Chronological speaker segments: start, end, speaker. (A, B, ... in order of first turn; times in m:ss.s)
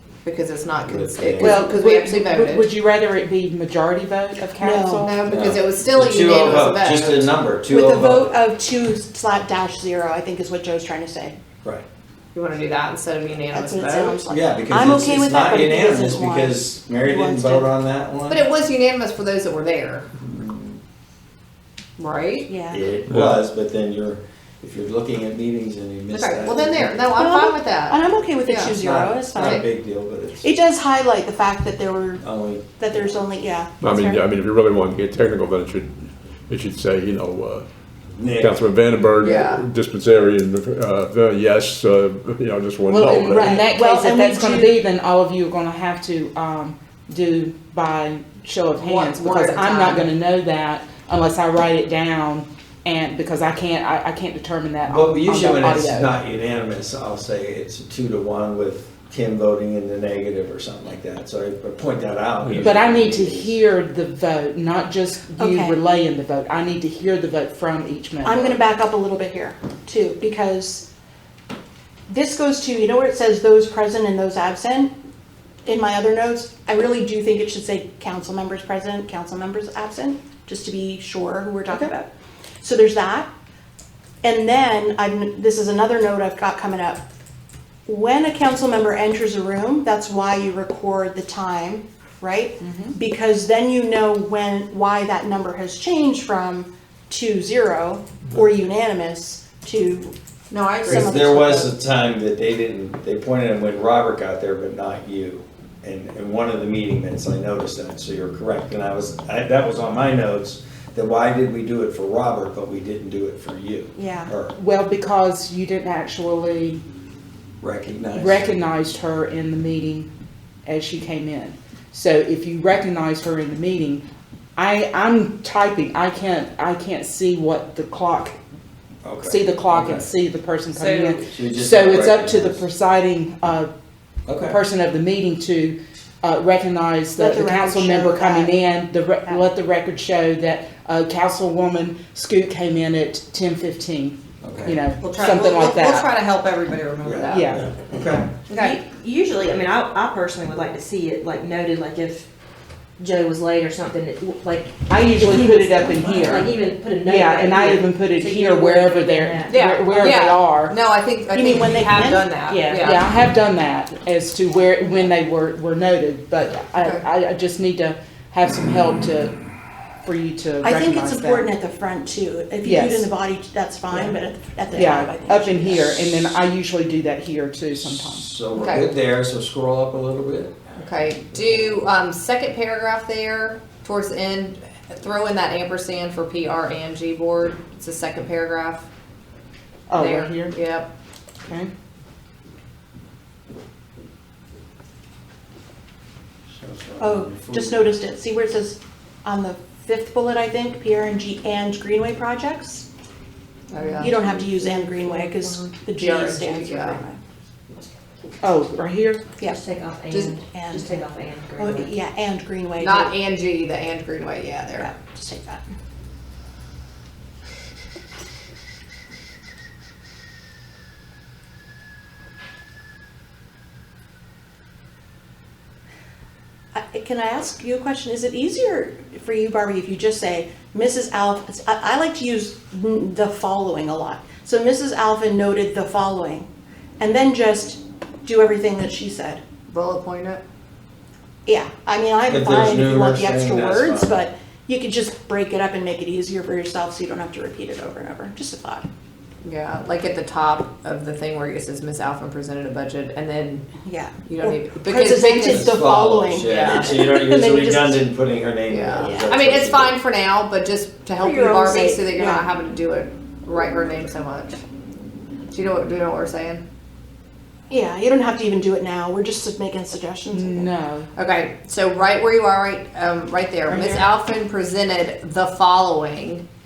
0:00.2-0:02.7 A
0:00.9-0:01.6 B
0:01.4-0:05.2 C
0:04.6-0:05.0 D
0:05.0-0:07.3 A
0:05.2-0:08.3 B
0:07.7-0:11.4 D
0:12.3-0:14.2 A
0:13.5-0:17.7 D
0:14.3-0:18.4 B
0:18.3-0:20.1 A
0:20.2-0:20.8 B
0:22.0-0:22.5 A
0:22.5-0:22.8 D
0:22.7-0:27.0 B
0:23.1-0:23.4 E
0:26.1-0:28.8 A
0:27.1-0:29.7 D
0:28.8-0:30.5 B
0:29.4-0:29.6 A
0:30.4-0:32.2 D
0:32.2-0:32.7 B
0:32.8-0:34.2 D
0:33.8-0:37.6 E
0:38.2-0:38.6 B
0:38.3-0:43.6 E
0:39.2-0:39.6 A
0:42.8-0:56.2 C
0:43.3-0:44.8 D
0:48.8-0:50.1 A
0:54.8-1:03.5 B
1:02.6-1:08.6 C
1:05.4-1:05.8 D
1:08.2-1:10.9 D
1:12.1-1:14.9 D
1:15.6-1:22.1 D
1:22.6-1:23.3 D
1:24.2-1:27.0 D
1:27.9-1:40.1 D
1:32.6-1:33.0 C
1:40.5-1:41.1 A
1:40.8-1:41.7 D
1:40.9-1:54.5 B
1:54.0-1:54.3 D
1:54.5-1:56.8 C
1:57.6-1:58.5 B
1:58.1-2:00.1 C
2:00.6-2:04.0 C
2:04.6-2:08.4 C
2:09.0-2:10.1 B
2:09.2-2:13.7 C
2:10.7-2:11.2 A
2:11.3-2:12.6 B
2:14.3-2:14.6 B
2:14.4-2:26.1 C
2:17.2-2:18.6 D
2:24.4-2:24.8 B
2:25.0-2:27.9 A
2:27.0-2:28.3 B
2:27.3-2:27.6 C
2:28.5-2:28.8 A
2:28.5-2:32.2 F
2:33.0-2:39.5 F
2:34.9-2:40.8 C
2:39.5-2:43.1 A
2:41.3-2:42.3 D
2:42.5-2:42.9 F
2:42.7-2:49.4 C
2:46.8-2:47.0 A
2:50.0-2:51.5 C
2:50.6-2:56.0 D
2:52.6-2:53.1 C
2:54.7-2:58.3 C
2:57.8-3:00.6 B
2:58.5-2:58.9 A
3:00.8-3:08.9 A
3:09.9-3:10.6 C
3:09.9-3:10.9 A
3:16.5-3:17.9 B
3:17.0-3:22.9 D
3:23.7-3:24.4 A
3:23.8-3:25.6 F
3:24.0-3:27.2 D
3:25.9-3:27.0 A
3:28.4-3:29.3 C
3:29.5-3:31.9 F
3:30.1-3:30.4 A
3:30.5-3:33.2 D
3:32.8-3:34.9 A
3:34.8-3:35.6 D
3:46.7-3:59.4 D
3:59.7-4:00.4 A
4:01.4-4:08.9 D
4:02.3-4:04.2 B
4:09.4-4:13.7 A
4:13.8-4:18.1 D
4:14.2-4:15.8 A
4:15.4-4:20.0 B
4:16.4-4:16.9 A
4:18.7-4:24.6 A
4:19.0-4:19.3 D
4:21.2-4:22.5 D
4:25.5-4:26.6 A
4:27.7-4:30.7 D
4:30.3-4:31.1 C
4:31.2-4:36.4 A